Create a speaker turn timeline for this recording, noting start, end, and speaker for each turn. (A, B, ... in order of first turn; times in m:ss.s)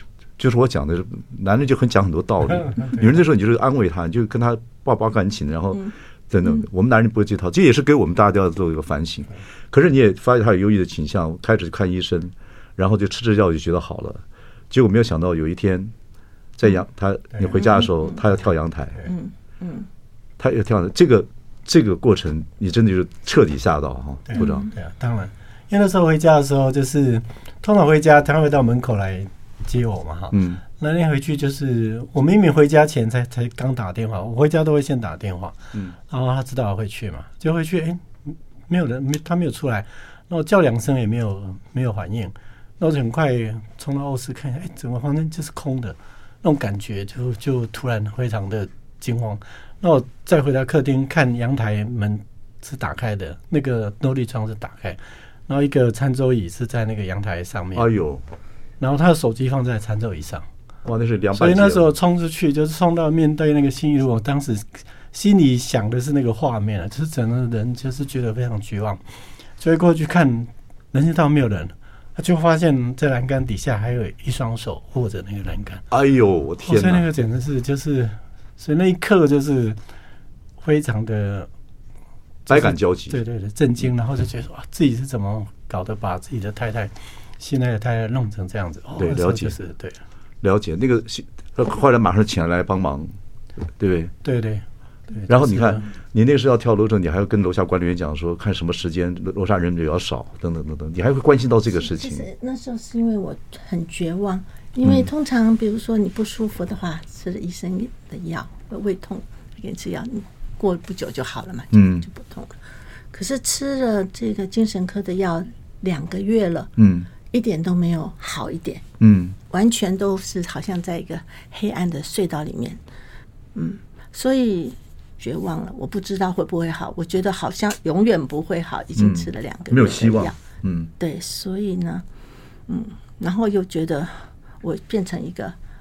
0:00.4-0:15.9 A
0:16.6-0:19.0 A
0:17.6-0:18.2 B
0:19.0-0:19.9 B
0:20.4-0:24.7 A
0:24.3-0:57.9 C
0:24.4-0:24.7 B
0:30.3-0:30.6 A
0:57.8-0:58.2 A
0:58.8-1:00.5 C
1:00.8-1:01.9 A
1:01.4-1:09.0 C
1:09.6-1:15.8 C
1:15.9-1:17.0 A
1:16.6-1:19.8 C
1:20.6-1:21.5 C
1:22.5-1:30.0 C
1:22.5-1:23.2 A
1:29.0-1:29.6 A
1:30.4-1:33.1 A
1:33.8-1:34.1 A
1:34.2-1:35.9 C
1:35.3-1:42.3 A
1:41.8-1:52.6 B
1:44.8-1:45.1 A
1:51.7-1:52.1 A
1:53.1-1:56.7 B
1:56.8-1:57.1 A
1:57.3-1:58.8 B
1:59.0-1:59.4 A
1:59.5-2:02.8 B
2:03.6-2:10.4 B
2:09.0-2:10.9 A
2:11.0-2:12.0 B
2:12.7-2:15.6 B